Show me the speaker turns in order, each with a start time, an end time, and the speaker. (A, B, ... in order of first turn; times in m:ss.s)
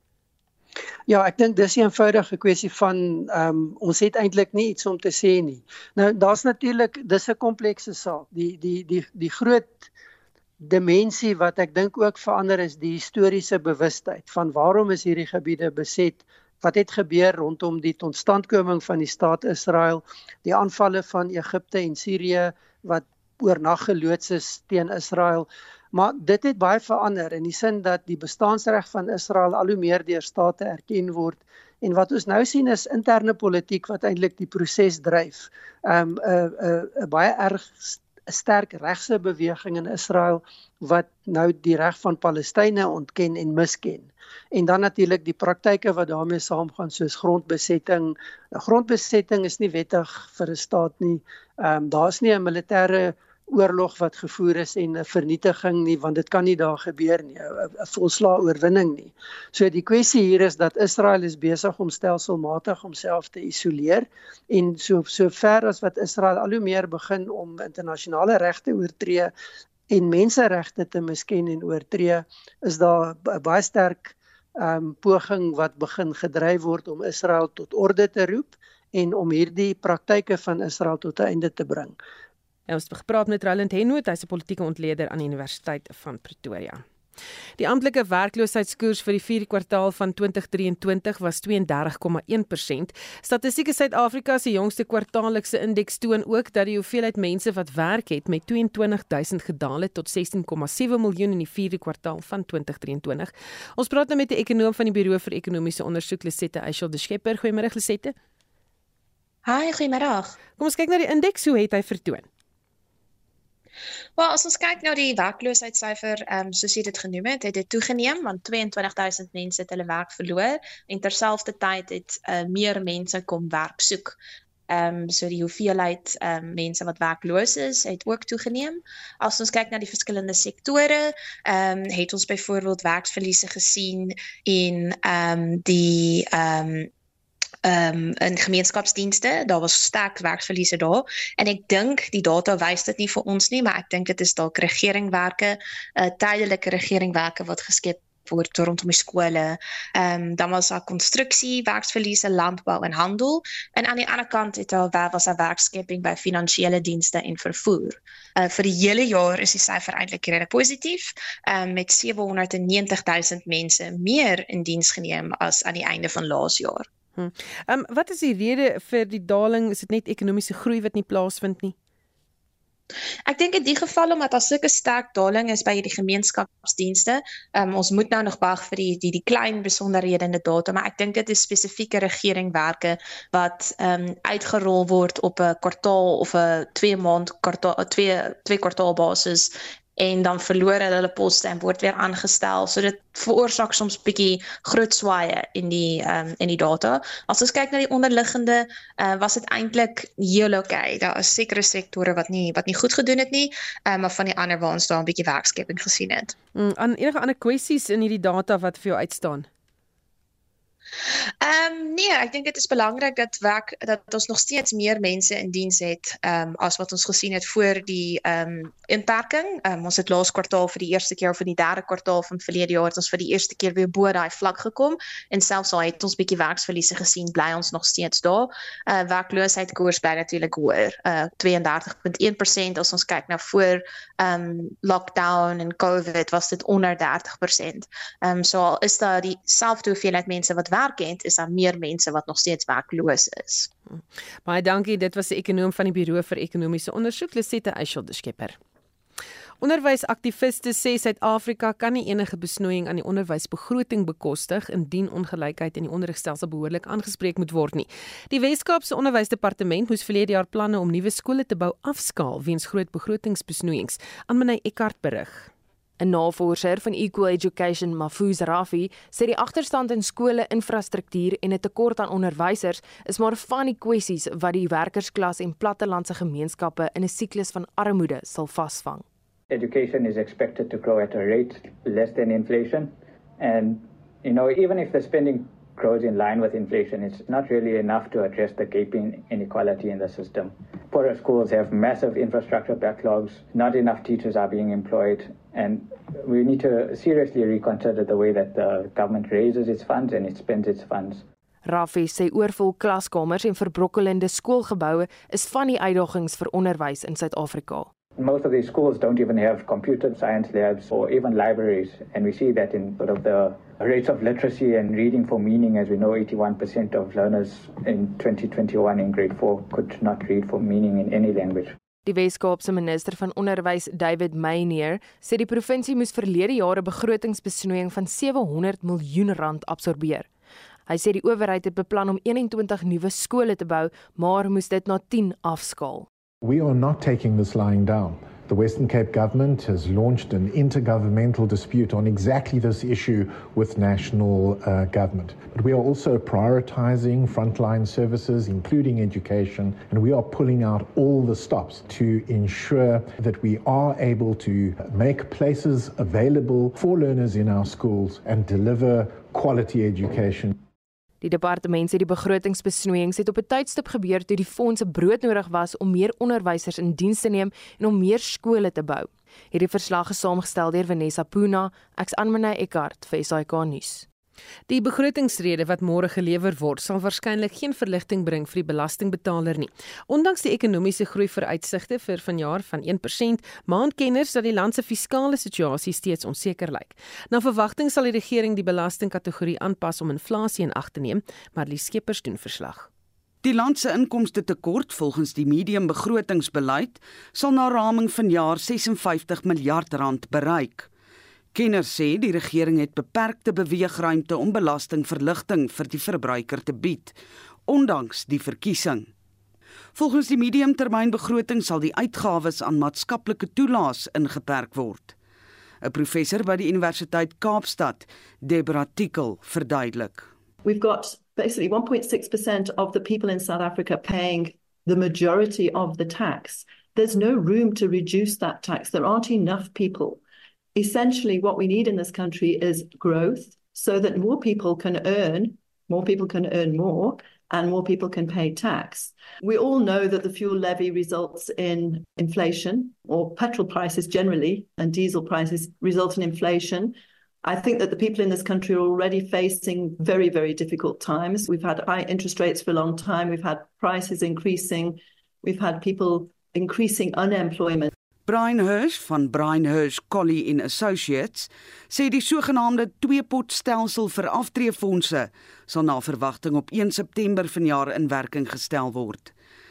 0:01.1-0:09.9 A
0:10.6-1:09.3 A
1:09.9-1:22.0 A
1:22.7-1:26.8 B
1:27.6-1:48.1 B
1:49.4-1:50.4 C
1:50.6-1:52.2 B
1:54.2-2:04.2 C
2:04.7-2:16.9 C
2:17.6-2:46.9 C
2:47.2-2:51.7 B
2:53.3-3:26.3 C
3:26.6-3:29.4 B
3:31.4-4:03.7 C
4:03.9-4:08.6 B
4:09.6-4:25.5 B
4:26.0-4:39.0 D
4:39.5-5:01.2 E
5:01.6-5:07.9 D
5:08.2-5:21.7 E
5:22.0-5:30.3 D
5:30.9-5:36.1 D
5:36.4-6:00.6 F
6:01.2-6:14.0 D
6:14.7-6:32.9 B
6:33.4-6:40.9 G
6:41.5-6:47.1 G
6:47.7-6:49.1 G
6:49.9-6:55.1 G
6:55.8-7:00.3 G
7:00.6-7:10.2 H
7:10.7-7:37.9 H
7:38.3-7:49.3 G